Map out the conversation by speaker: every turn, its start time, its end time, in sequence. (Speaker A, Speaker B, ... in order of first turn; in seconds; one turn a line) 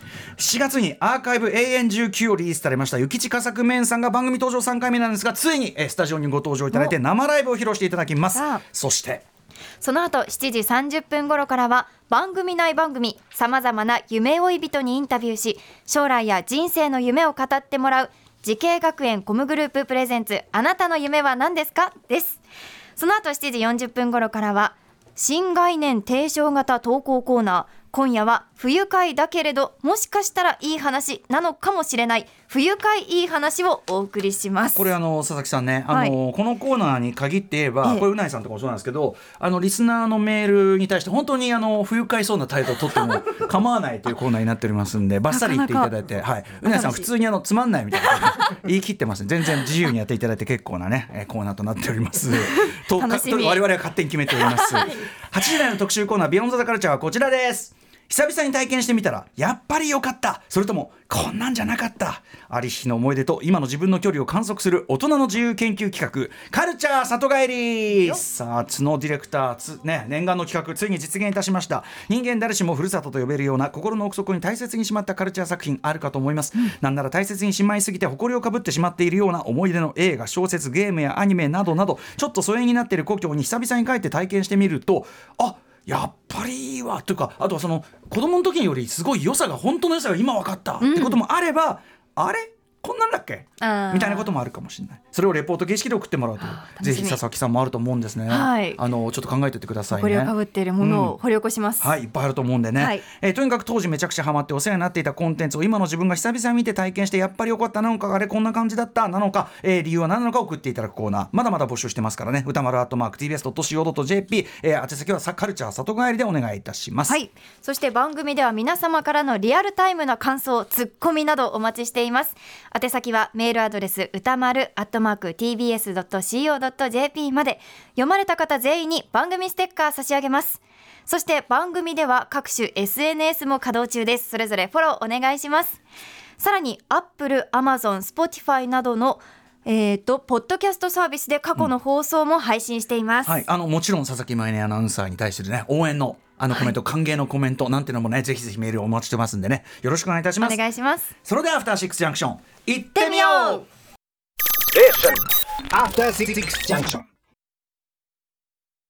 Speaker A: 0.4-9.2
Speaker B: 8.3-8.6
Speaker B: 9.8-22.4
Speaker B: 23.0-34.9
Speaker A: 34.7-101.2
Speaker B: 35.9-36.1
Speaker B: 45.3-45.9
Speaker B: 46.6-47.1
Speaker B: 52.3-53.7
Speaker B: 54.3-55.4
Speaker B: 90.8-91.2
Speaker B: 93.6-94.3
Speaker B: 96.4-97.2
Speaker B: 98.3-98.8
Speaker B: 99.9-101.9
Speaker A: 101.8-117.2
Speaker B: 102.8-103.0
Speaker B: 117.1-135.8
Speaker B: 136.4-143.4
Speaker A: 143.2-150.6
Speaker B: 146.5-146.7
Speaker B: 150.4-151.1
Speaker A: 151.2-153.6
Speaker B: 152.9-153.7
Speaker C: 154.7-157.0